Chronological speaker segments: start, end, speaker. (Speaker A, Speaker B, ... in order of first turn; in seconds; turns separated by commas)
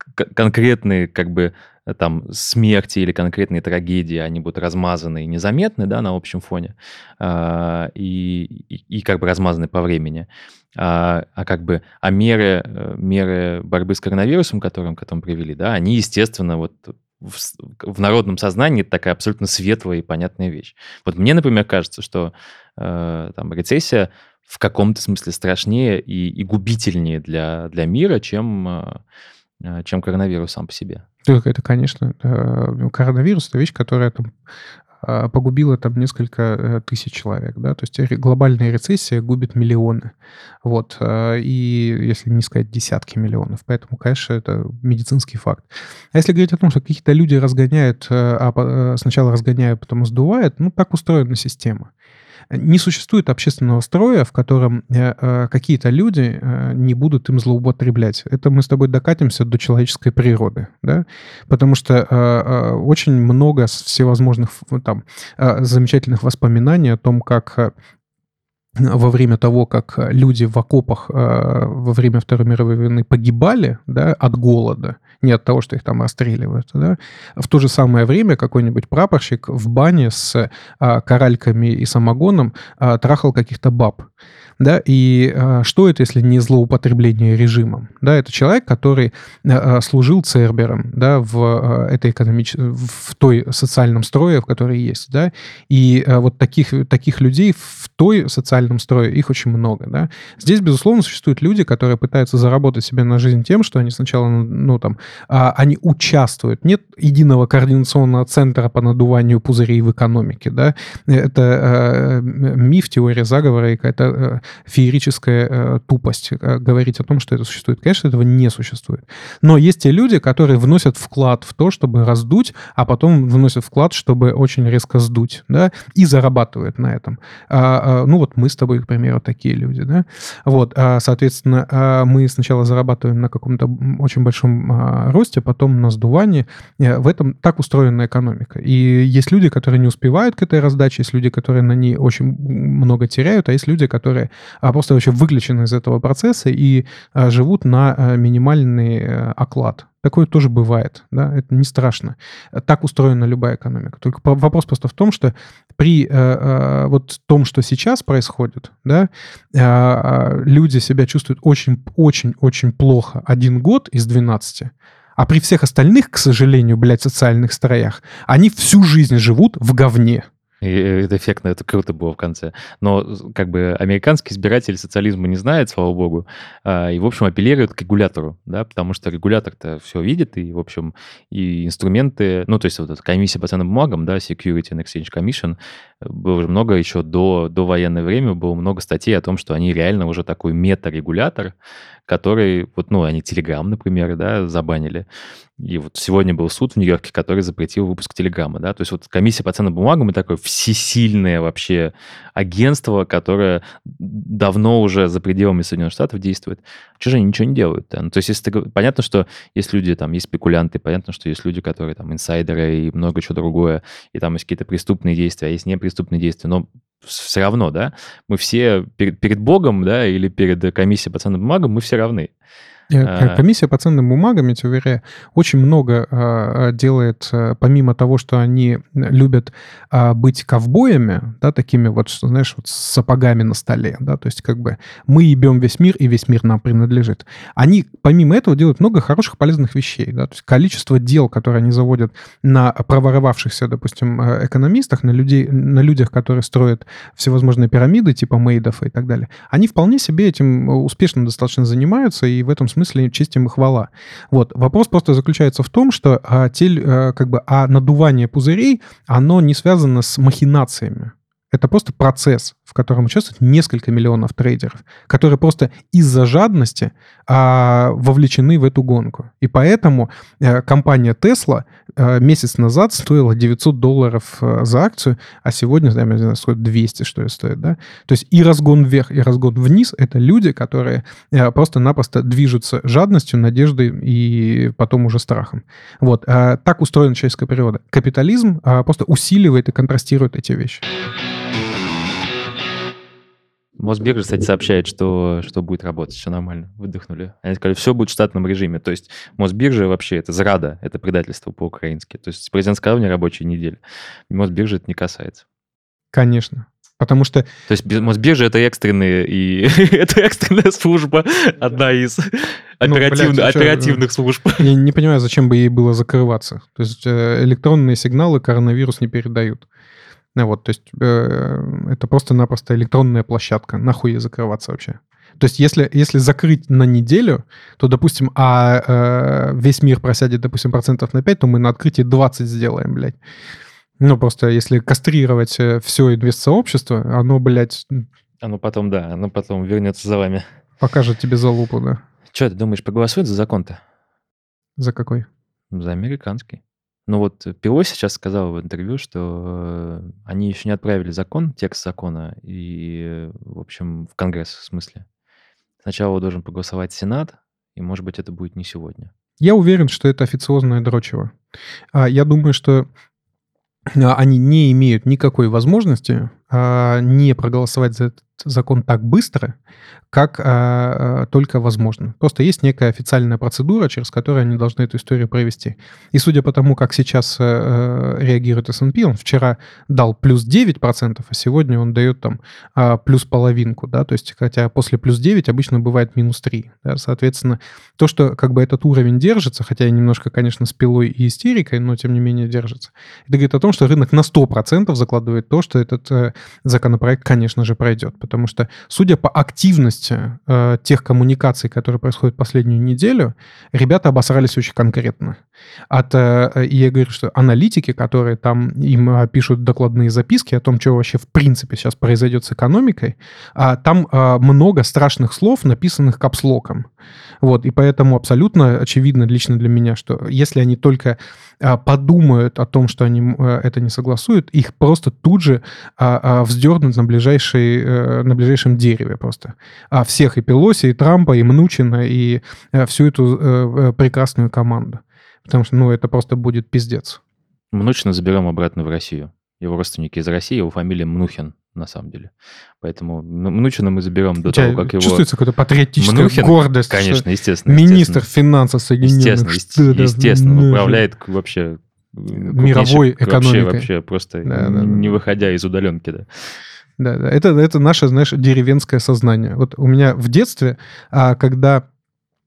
Speaker A: 0.2-29.0, Speaker A: 29.6-31.0, Speaker B: 31.2-34.3, Speaker B: 35.0-40.1, Speaker B: 40.6-51.9, Speaker B: 52.5-67.7, Speaker B: 68.8-84.1, Speaker B: 84.6-170.3, Speaker A: 170.6-191.5, Speaker A: 192.1-195.1, Speaker A: 195.6-222.3, Speaker B: 222.9-290.8, Speaker A: 223.0-223.4, Speaker A: 293.8-303.8, Speaker A: 304.3-305.4, Speaker B: 306.1-307.5, Speaker A: 307.7-314.6, Speaker B: 312.8-314.0, Speaker B: 314.6-319.7, Speaker B: 320.4-333.2, Speaker B: 334.0-338.1, Speaker A: 338.4-340.4, Speaker B: 340.8-342.0, Speaker A: 342.3-343.8, Speaker B: 344.8-345.3, Speaker A: 345.7-355.1, Speaker A: 355.8-359.1, Speaker B: 359.4-361.3, Speaker B: 361.9-362.9, Speaker B: 363.9-369.6, Speaker B: 370.1-405.4, Speaker B: 405.9-416.9, Speaker B: 417.4-437.2, Speaker A: 437.7-445.3, Speaker B: 444.4-451.0, Speaker A: 446.0-448.3, Speaker A: 449.0-456.3, Speaker B: 452.3-453.9, Speaker B: 454.4-455.2, Speaker B: 457.0-461.9